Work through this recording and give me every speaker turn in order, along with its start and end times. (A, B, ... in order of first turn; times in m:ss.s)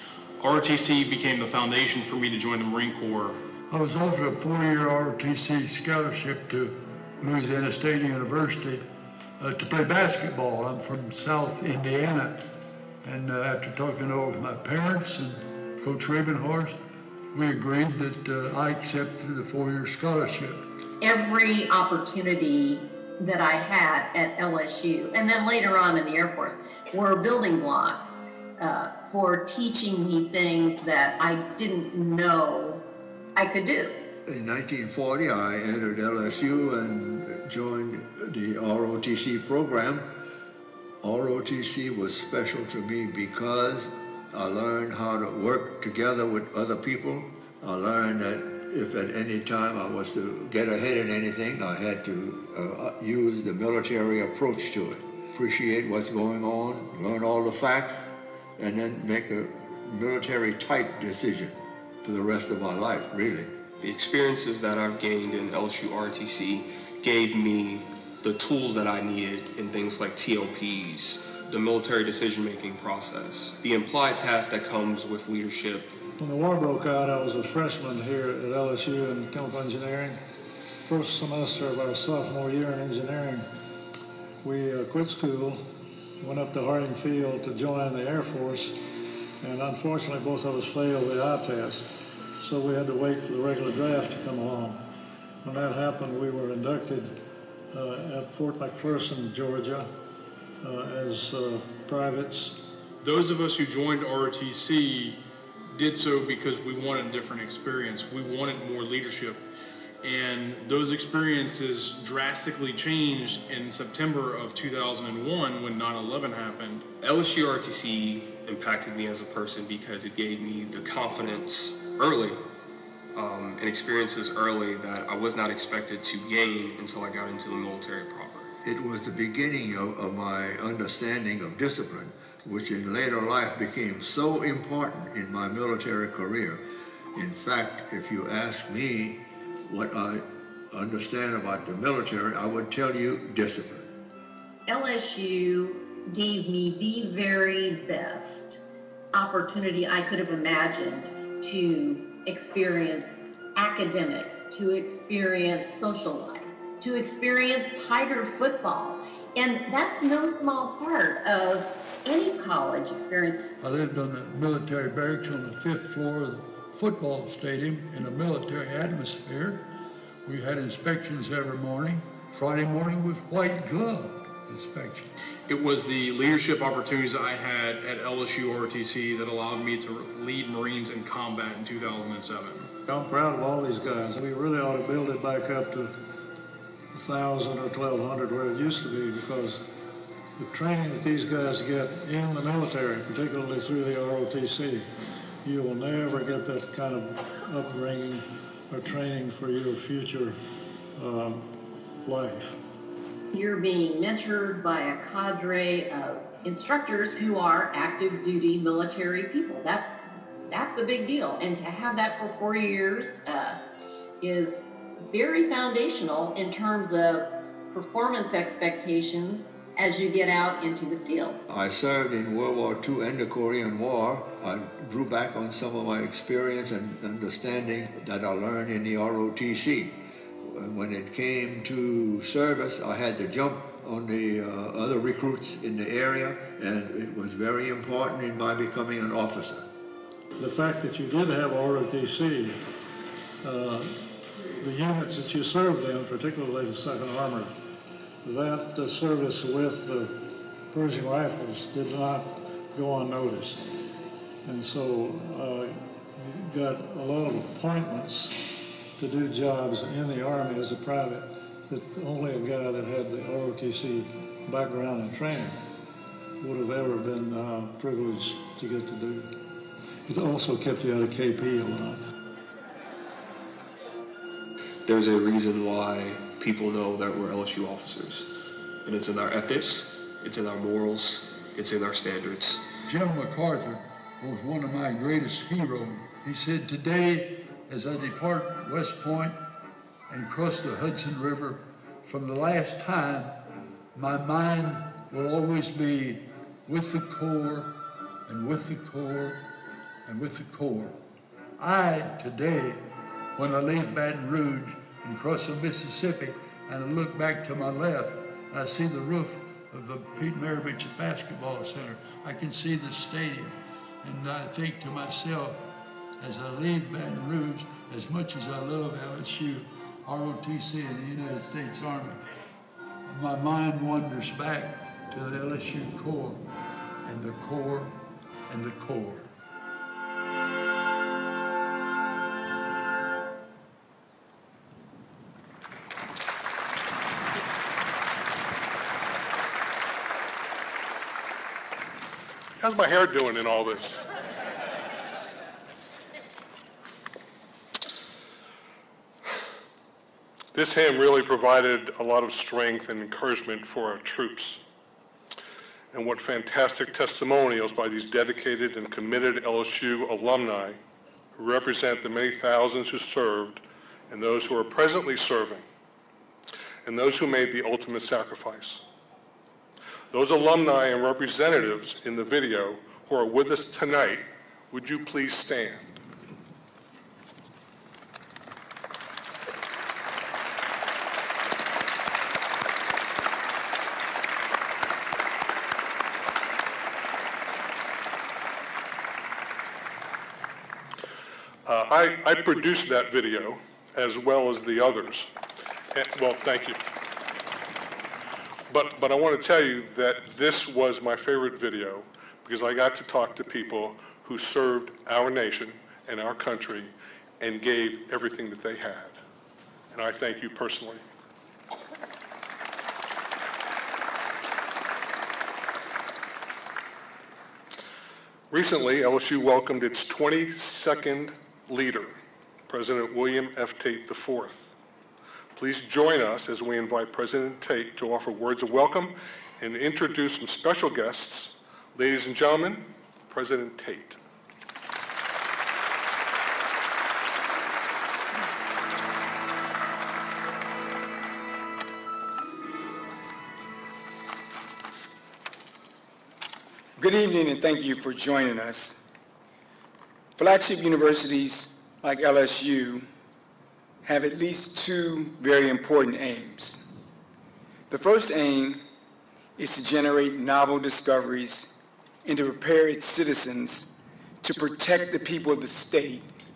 0:00.4-0:03.4 A
0:03.7-0:08.8 B
0:09.4-0:16.8 B
0:17.3-0:20.6 B
0:21.0-0:32.8 C
0:33.4-0:34.0 C
0:34.2-0:40.2 D
0:41.0-1:03.5 D
1:03.8-1:16.0 E
1:16.2-1:20.2 F
1:20.8-1:23.5 F
1:24.4-1:25.6 F
1:26.2-1:28.8 F
1:29.4-1:34.8 F
1:35.4-1:39.9 F
1:40.6-1:42.7 F
1:43.0-1:49.4 A
1:50.0-1:56.9 A
1:57.0-2:02.4 E
2:03.1-2:08.5 E
2:08.6-2:23.9 D
2:24.7-2:28.6 C
2:29.1-2:43.4 C
2:43.6-2:55.1 B
2:55.5-3:02.7 A
3:02.8-3:06.0 F
3:06.9-3:09.6 F
3:10.4-3:14.9 F
3:15.4-3:20.4 F
3:20.9-3:22.6 F
3:23.3-3:33.6 C
3:34.2-3:41.4 C
3:41.5-3:59.7 D
4:00.4-4:02.6 F
4:03.4-4:07.6 F
4:08.2-4:13.7 F
4:14.4-4:18.4 F
4:19.0-4:25.7 F
4:26.4-4:29.4 F
4:30.0-4:32.0 F
4:34.8-4:38.3 E
4:38.8-4:42.6 E
4:42.8-4:49.4 B
4:50.1-4:59.4 B
5:00.0-5:01.0 B
5:01.6-5:22.2 B
5:23.1-5:26.4 B
5:27.0-5:29.3 B
5:42.6-5:44.0 G
5:50.5-5:54.6 G
5:55.9-6:00.8 G
6:01.3-6:05.6 G
6:06.8-6:08.8 G
6:10.1-6:16.0 G
6:31.6-6:35.3 G
6:35.9-6:36.8 G
6:38.7-6:49.2 G
6:49.9-6:51.0 G
6:58.5-7:04.8 G
7:05.5-7:14.2 G
7:27.0-7:29.1 H
7:30.4-7:33.1 H
7:34.0-7:36.8 H
7:37.9-7:38.8 H
7:39.6-7:43.9 H
7:44.4-7:46.3 H